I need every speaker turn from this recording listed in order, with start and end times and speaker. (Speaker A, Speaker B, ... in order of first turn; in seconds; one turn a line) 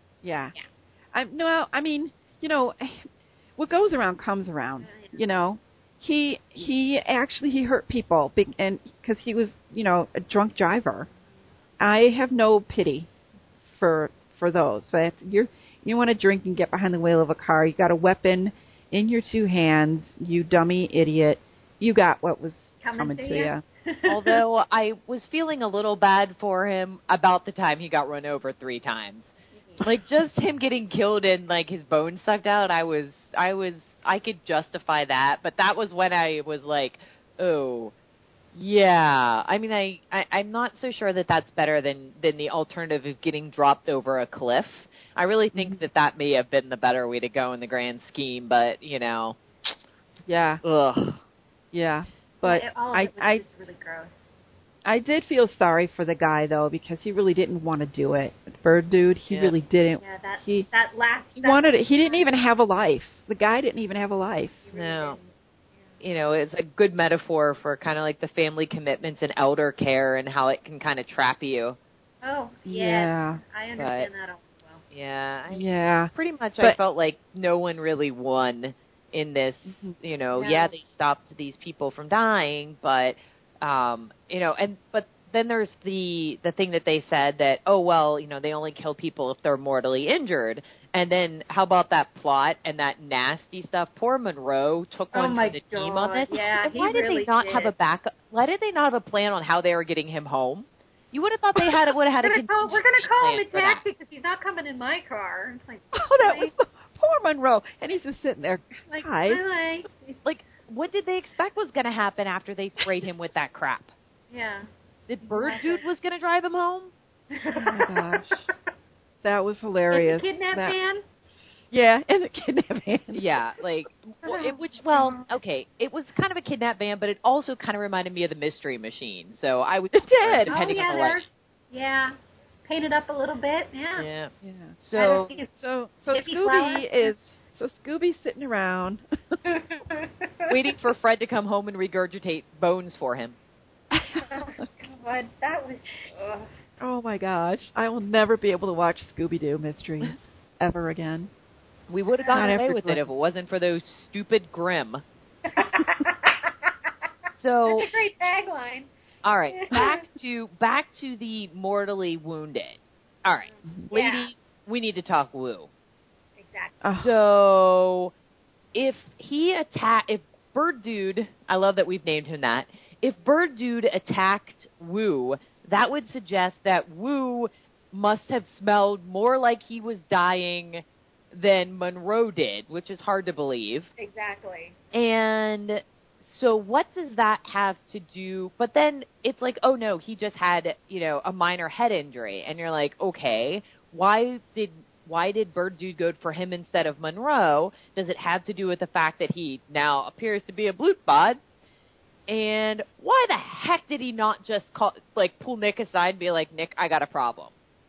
Speaker A: 0.2-0.5
Speaker A: 1.1-11.1
Speaker B: 4.8-5.2
Speaker A: 11.8-13.1
Speaker A: 13.7-23.6
Speaker B: 22.8-24.4
Speaker C: 24.1-29.3
Speaker B: 29.6-29.9
Speaker C: 29.8-37.9
Speaker C: 38.5-49.4
Speaker A: 45.5-45.8
Speaker A: 50.3-50.6
Speaker C: 50.6-51.2
Speaker A: 51.7-53.4
Speaker B: 52.4-54.1
Speaker A: 54.9-60.7
Speaker B: 60.0-62.3
Speaker A: 61.4-64.6
Speaker B: 64.7-65.3
Speaker C: 64.7-65.2
Speaker C: 66.0-71.8
Speaker B: 72.2-74.8
Speaker A: 72.7-73.4
Speaker C: 73.8-74.1
Speaker C: 74.9-103.8
Speaker A: 75.5-76.8
Speaker A: 79.7-80.0
Speaker B: 80.3-80.7
Speaker B: 95.1-97.7
Speaker B: 102.2-106.5
Speaker A: 106.0-109.4
Speaker B: 108.9-110.2
Speaker C: 110.2-113.9
Speaker B: 114.3-114.7
Speaker C: 115.1-116.9
Speaker B: 115.2-115.8
Speaker B: 117.3-118.5
Speaker A: 117.5-118.5
Speaker A: 119.2-120.8
Speaker B: 119.9-121.0
Speaker A: 121.7-123.2
Speaker C: 123.1-131.2
Speaker B: 124.2-125.3
Speaker A: 129.9-130.6
Speaker B: 130.5-134.1
Speaker C: 134.0-135.4
Speaker A: 134.4-134.8
Speaker B: 135.0-135.5
Speaker A: 135.5-139.4
Speaker B: 136.1-137.1
Speaker B: 139.5-140.6
Speaker C: 140.5-143.4
Speaker A: 143.9-144.2
Speaker B: 144.2-146.5
Speaker A: 146.8-151.3
Speaker C: 151.9-155.0
Speaker B: 152.2-152.5
Speaker A: 152.3-153.0
Speaker B: 155.5-156.7
Speaker C: 157.4-157.9
Speaker B: 157.7-158.9
Speaker C: 159.2-165.7
Speaker B: 159.5-160.0
Speaker B: 163.5-164.3
Speaker B: 166.4-166.8
Speaker A: 166.8-167.1
Speaker C: 167.0-168.1
Speaker C: 168.7-183.9
Speaker B: 184.0-184.8
Speaker C: 184.9-201.4
Speaker C: 202.3-207.5